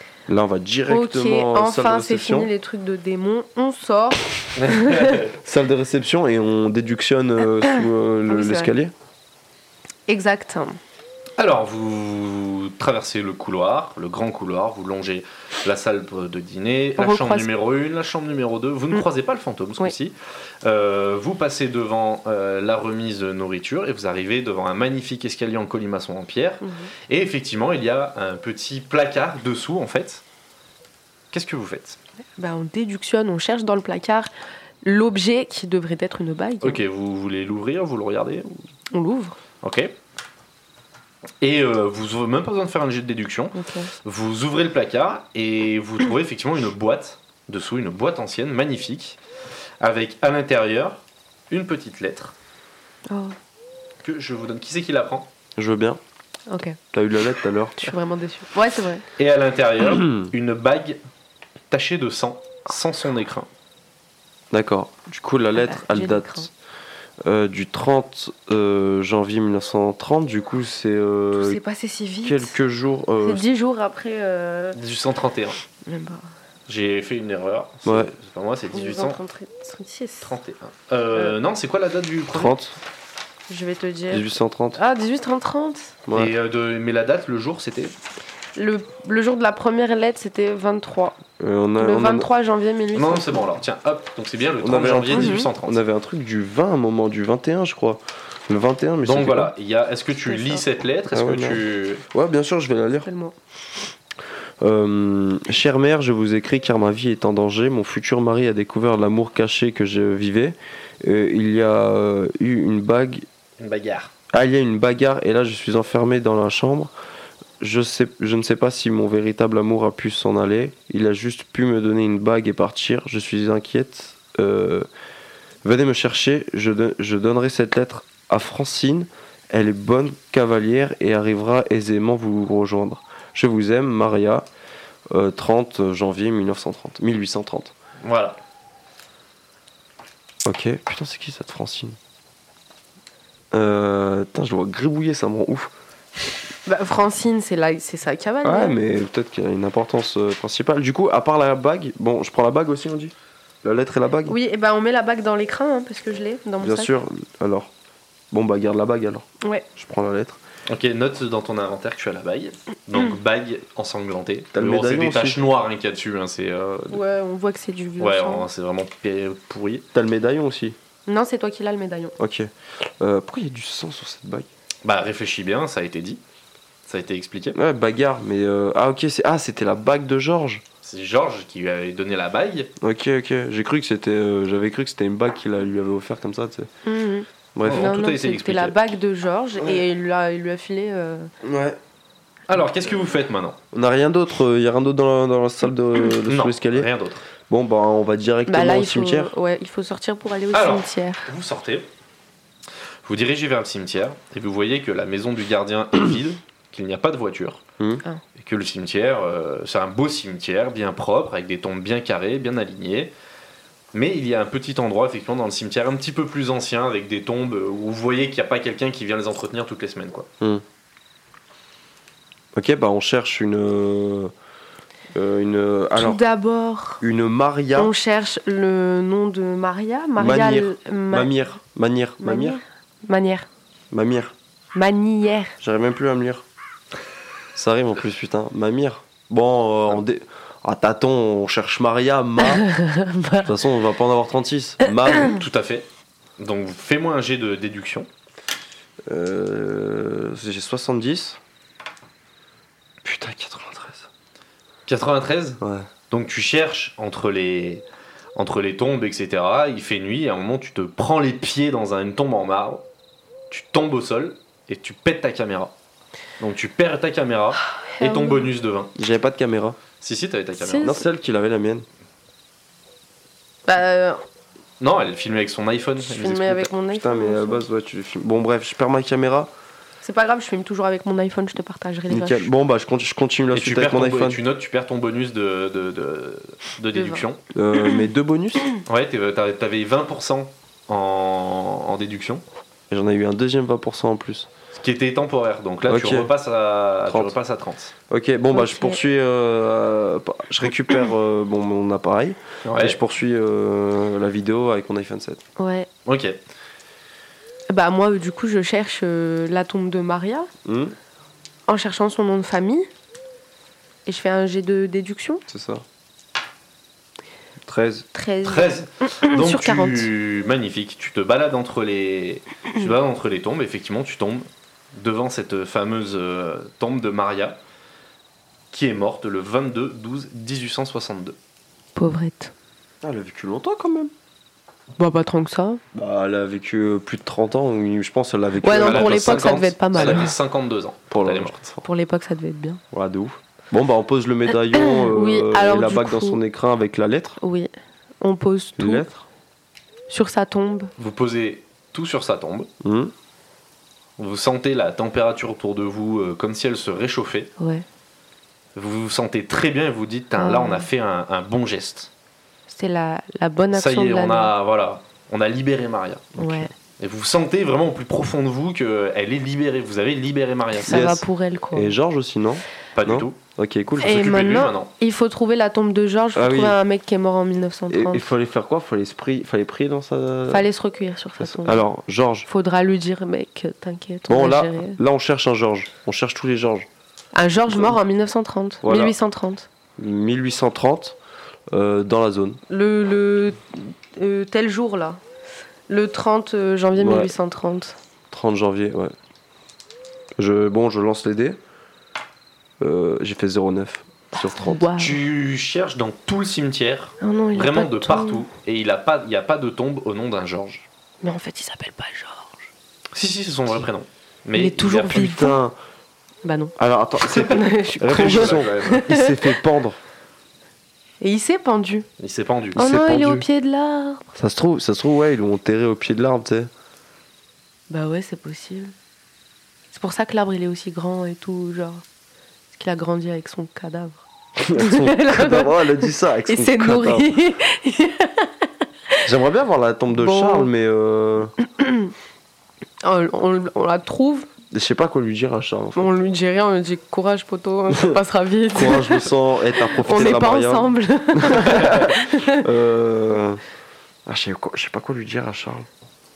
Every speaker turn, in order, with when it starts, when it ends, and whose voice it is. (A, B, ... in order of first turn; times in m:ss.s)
0:00.3-0:02.5 A
0:00.9-0:05.2 B
0:04.6-0:05.3 C
0:05.4-0:08.9 A
0:07.6-0:08.7 B
0:10.1-0:10.8 B
0:11.4-0:30.2 C
0:17.0-0:17.5 B
0:26.6-0:26.9 B
0:31.3-0:32.0 C
0:32.4-0:34.3 B
0:34.8-0:36.8 B
0:36.6-0:38.6 C
0:38.9-0:39.4 B
0:39.6-0:39.9 C
0:41.4-0:49.2 C
0:43.6-0:43.9 B
0:49.8-0:52.3 C
0:53.1-0:53.4 B
0:54.0-0:55.3 C
0:55.6-0:56.0 A
0:56.5-0:56.8 B
0:56.9-0:57.9 A
0:57.8-0:59.0 B
0:59.2-1:01.0 C
1:01.7-1:03.5 C
1:04.5-1:06.5 A
1:05.6-1:06.5 B
1:07.2-1:11.6 A
1:11.4-1:12.6 B
1:12.2-1:13.4 A
1:13.2-1:14.8 B
1:14.8-1:15.6 C
1:15.9-1:16.2 B
1:16.7-1:19.2 C
1:17.9-1:18.1 A
1:18.7-1:20.3 B
1:20.2-1:22.6 C
1:22.3-1:22.8 A
1:23.5-1:26.0 B
1:24.1-1:24.8 A
1:26.1-1:26.3 A
1:26.1-1:27.9 C
1:28.6-1:31.2 B
1:31.4-1:32.3 A
1:31.8-1:33.5 B
1:32.9-1:35.8 C
1:34.6-1:39.5 A
1:35.1-1:35.5 B
1:39.0-1:42.0 C
1:40.3-1:40.6 B
1:41.1-1:43.1 A
1:43.0-1:43.4 B
1:44.6-1:53.3 A
1:53.6-1:54.1 C
1:54.3-1:56.9 A
1:57.6-2:04.9 A
2:05.6-2:14.5 A
2:15.1-2:17.7 A
2:18.0-2:18.4 C
2:20.5-2:22.0 A
2:23.5-2:25.7 A
2:26.7-2:28.8 B
2:28.4-2:34.4 A
2:34.3-2:36.9 B
2:36.6-2:37.7 A
2:38.3-2:39.3 A
2:39.4-2:39.7 B
2:39.8-2:40.4 A
2:40.7-2:47.0 C
2:44.5-2:45.4 A
2:46.9-2:48.5 B
2:48.0-2:49.9 C
2:49.9-2:50.8 A
2:51.1-2:52.2 B
2:52.2-2:54.5 A
2:54.8-2:56.2 C
2:56.9-2:57.6 C
2:57.6-3:00.6 A
3:00.8-3:02.7 C
3:02.8-3:06.7 A
3:06.8-3:11.3 B
3:07.6-3:07.9 A
3:07.6-3:08.8 C
3:11.4-3:11.8 A
3:12.5-3:13.6 C
3:13.7-3:16.9 A
3:16.3-3:17.2 C
3:17.5-3:19.3 A
3:18.5-3:21.3 B
3:20.5-3:21.9 C
3:23.0-3:27.6 C
3:28.4-3:33.1 C
3:33.9-3:40.3 C
3:42.6-3:44.3 A
3:45.1-3:46.2 A
3:46.0-3:47.0 B
3:47.0-3:47.9 A
3:47.8-3:51.3 B
3:50.2-3:52.6 A
3:52.2-3:53.5 B
3:53.9-3:54.3 A
3:54.7-3:55.6 B
3:55.6-3:56.4 A
3:57.6-4:02.7 A
4:02.4-4:03.5 B
4:03.4-4:05.4 A
4:05.2-4:05.9 C
4:06.4-4:08.1 C
4:09.1-4:11.4 A
4:13.0-4:14.1 A
4:14.9-4:17.8 C
4:15.6-4:15.9 A
4:18.4-4:22.8 C
4:23.5-4:25.7 C
4:26.4-4:28.9 C
4:27.7-4:28.5 B
4:29.0-4:29.8 A
4:30.0-4:31.0 C
4:30.6-4:31.0 B
4:30.8-4:31.9 A
4:33.7-4:34.2 B
4:34.8-4:36.7 C
4:36.0-4:37.6 B
4:36.9-4:39.5 A
4:40.0-4:42.5 B
4:42.1-4:44.4 A
4:43.5-4:47.4 C
4:46.9-4:47.2 B
4:47.5-4:48.6 A
4:48.9-4:52.4 C
4:52.9-4:54.5 A
4:54.7-4:57.9 C
4:55.9-4:56.3 A
4:57.1-4:57.3 A
4:58.1-5:05.4 A
4:58.5-4:59.0 B
5:02.6-5:03.0 C
5:05.6-5:05.9 B
5:06.1-5:06.4 C
5:07.7-5:10.5 B
5:10.6-5:11.0 A
5:11.7-5:12.9 B
5:14.1-5:15.4 B
5:15.5-5:15.8 A
5:17.6-5:18.1 A
5:18.1-5:20.1 B
5:18.4-5:27.6 C
5:28.7-5:31.4 C
5:32.0-5:32.5 B
5:33.0-5:34.1 A
5:35.0-5:35.8 B
5:35.9-5:40.3 A
5:38.6-5:40.3 B
5:38.8-5:41.8 C
5:41.1-5:41.8 A
5:41.8-5:42.8 B
5:42.9-5:47.4 A
5:44.7-5:46.4 B
5:47.4-5:49.1 B
5:48.8-5:49.2 A
5:50.1-5:50.9 B
5:51.0-5:52.7 C
5:52.8-5:53.1 A
5:54.2-5:57.5 C
5:57.6-5:57.8 B
5:58.8-6:02.1 C
6:00.4-6:00.9 B
6:02.7-6:04.5 B
6:03.7-6:06.4 C
6:06.4-6:06.7 A
6:06.4-6:06.7 B
6:07.0-6:11.1 C
6:10.8-6:11.9 B
6:10.9-6:11.2 A
6:11.7-6:14.2 A
6:13.0-6:13.4 C
6:14.0-6:14.9 C
6:14.0-6:18.3 B
6:16.4-6:16.8 A
6:17.9-6:20.6 A
6:20.5-6:21.8 B
6:21.4-6:22.5 A
6:22.5-6:25.0 B
6:24.3-6:26.9 A
6:27.3-6:29.7 B
6:28.8-6:29.1 A
6:30.0-6:31.2 A
6:31.7-6:32.6 A
6:32.7-6:35.2 B
6:35.9-6:38.0 B
6:37.0-6:37.3 A
6:38.3-6:39.1 A
6:40.4-6:41.6 A
6:42.8-6:44.9 A
6:44.4-6:45.2 B
6:45.0-6:50.9 C
6:47.2-6:48.5 B
6:51.2-6:52.7 B
6:53.1-6:55.2 C
6:54.5-6:55.6 B
6:55.1-6:55.8 A
6:56.4-6:59.6 B
6:56.8-7:00.0 A
6:58.1-6:59.1 C
7:01.2-7:02.1 B
7:02.2-7:02.8 C
7:02.8-7:03.5 A
7:02.8-7:04.3 B
7:04.4-7:06.7 A
7:07.9-7:08.9 B
7:09.9-7:12.0 B
7:12.7-7:14.2 B
7:14.6-7:17.4 A
7:14.8-7:19.3 B
7:19.3-7:21.5 A
7:20.2-7:20.7 B
7:21.6-7:22.1 B
7:23.0-7:24.5 B
7:24.7-7:26.1 A
7:26.0-7:29.3 B
7:27.9-7:28.2 A
7:28.7-7:33.6 A
7:29.8-7:32.7 B
7:34.3-7:35.9 A